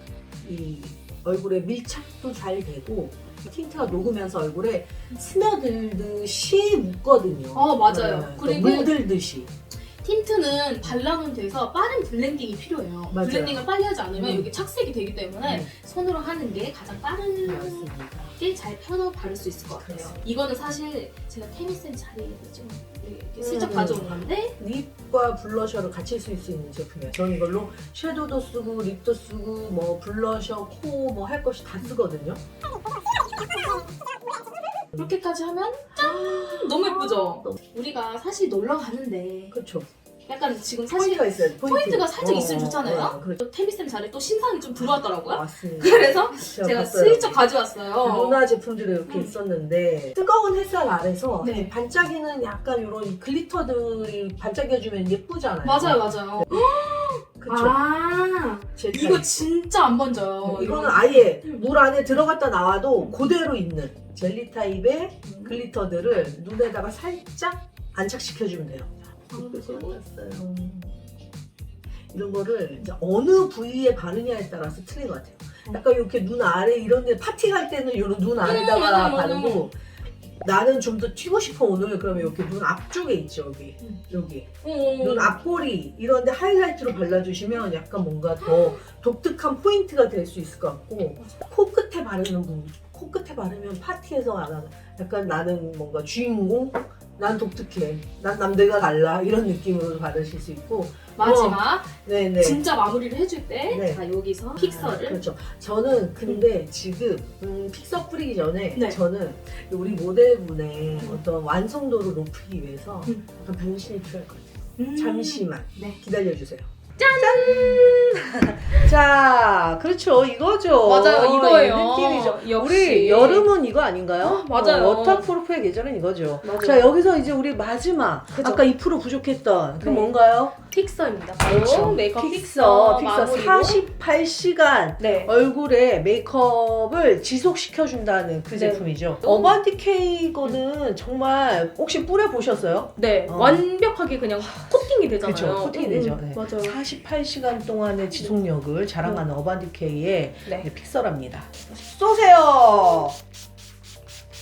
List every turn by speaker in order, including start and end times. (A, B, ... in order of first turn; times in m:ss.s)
0:00.4-0:09.5 A
0:07.5-0:09.0 B
0:10.0-0:24.6 B
0:13.1-0:14.5 A
0:15.4-0:15.7 A
0:17.4-0:18.3 A
0:19.8-0:20.2 A
0:23.4-0:32.4 A
0:35.0-0:39.6 B
0:36.0-0:37.6 A
0:39.5-0:39.9 A
0:40.3-0:48.4 B
0:40.9-0:43.4 A
0:44.8-0:47.5 A
0:48.0-0:56.7 A
0:49.1-0:49.3 B
0:51.4-0:51.7 B
0:55.6-1:01.6 B
0:57.4-0:57.8 A
0:58.8-0:59.3 A
1:00.4-1:11.0 A
1:05.3-1:05.6 B
1:09.3-1:10.0 B
1:12.1-1:19.8 A
1:18.4-1:19.7 B
1:20.4-1:42.6 A
1:24.6-1:25.4 B
1:28.4-1:28.8 B
1:41.2-1:45.2 B
1:43.7-1:44.0 A
1:44.6-2:10.5 A
1:48.8-1:49.0 B
1:54.8-1:56.0 B
1:57.0-1:58.2 B
2:00.8-2:03.5 B
2:04.2-2:05.3 B
2:06.4-2:07.0 B
2:08.3-2:08.6 B
2:09.8-2:10.1 B
2:10.7-2:13.9 B
2:11.4-2:23.6 A
2:15.0-2:15.3 B
2:18.5-2:19.6 B
2:23.0-2:26.8 B
2:24.4-2:24.7 A
2:25.2-2:33.2 A
2:32.8-2:33.1 B